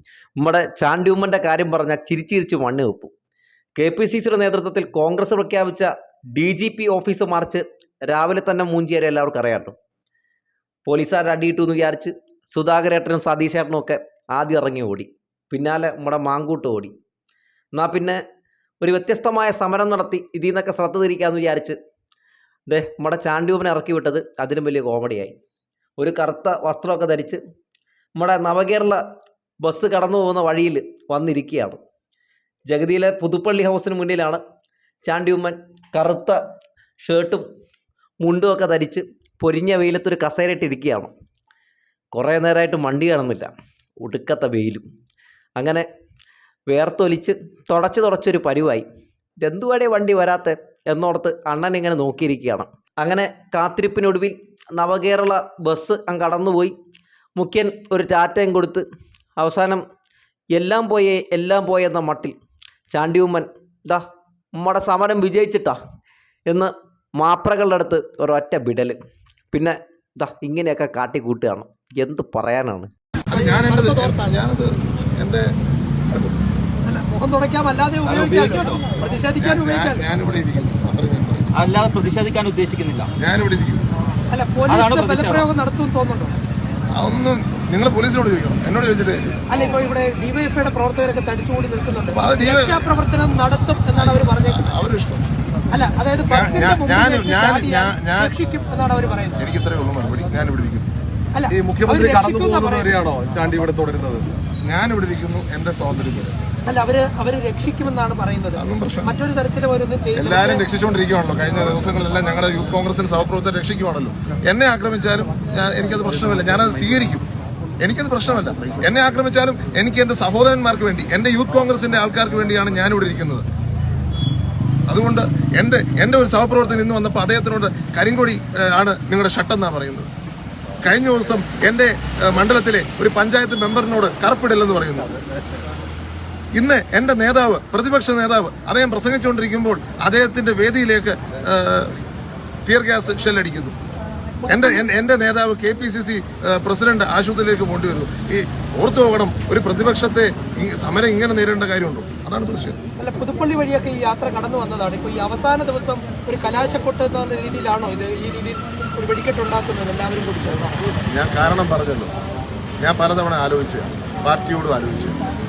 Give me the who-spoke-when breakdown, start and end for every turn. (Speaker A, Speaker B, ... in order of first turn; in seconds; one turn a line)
Speaker A: 0.4-3.1
Speaker A: 3.8-9.8
Speaker A: 10.9-16.9
Speaker A: 17.8-18.2
Speaker A: 18.8-21.8
Speaker A: 22.7-25.3
Speaker A: 26.0-27.4
Speaker A: 28.2-29.0
Speaker A: 29.6-31.8
Speaker A: 32.7-34.4
Speaker A: 35.1-36.4
Speaker A: 37.0-37.5
Speaker A: 38.2-41.1
Speaker A: 42.1-43.5
Speaker A: 44.0-44.8
Speaker A: 45.6-45.9
Speaker A: 46.7-48.9
Speaker A: 49.4-56.8
Speaker A: 57.4-58.9
Speaker A: 59.4-59.8
Speaker A: 60.5-62.4
Speaker A: 62.9-64.0
Speaker A: 64.6-65.8
Speaker A: 66.5-69.0
Speaker A: 69.5-72.9
Speaker B: 73.3-75.5
Speaker C: 73.3-74.4
Speaker B: 76.1-76.4
Speaker C: 76.9-80.0
Speaker D: 78.0-78.8
Speaker B: 79.4-81.5
Speaker D: 81.5-83.1
Speaker B: 83.2-83.9
Speaker C: 84.3-86.4
Speaker D: 84.7-85.5
Speaker B: 87.0-89.4
Speaker C: 89.5-94.7
Speaker B: 92.1-92.9
Speaker B: 93.9-95.3
Speaker C: 95.7-99.4
Speaker B: 96.3-98.4
Speaker B: 99.4-100.9
Speaker C: 101.3-102.9
Speaker E: 101.5-104.3
Speaker B: 104.6-106.4
Speaker C: 106.7-110.7
Speaker B: 108.6-109.1
Speaker B: 110.1-117.2
Speaker B: 117.8-123.4
Speaker B: 124.9-130.1
Speaker B: 130.8-135.1
Speaker B: 136.6-141.9
Speaker B: 142.7-143.8
Speaker C: 144.4-144.8
Speaker B: 144.5-152.8
Speaker C: 153.0-160.8
Speaker B: 161.1-162.1
Speaker B: 162.8-165.2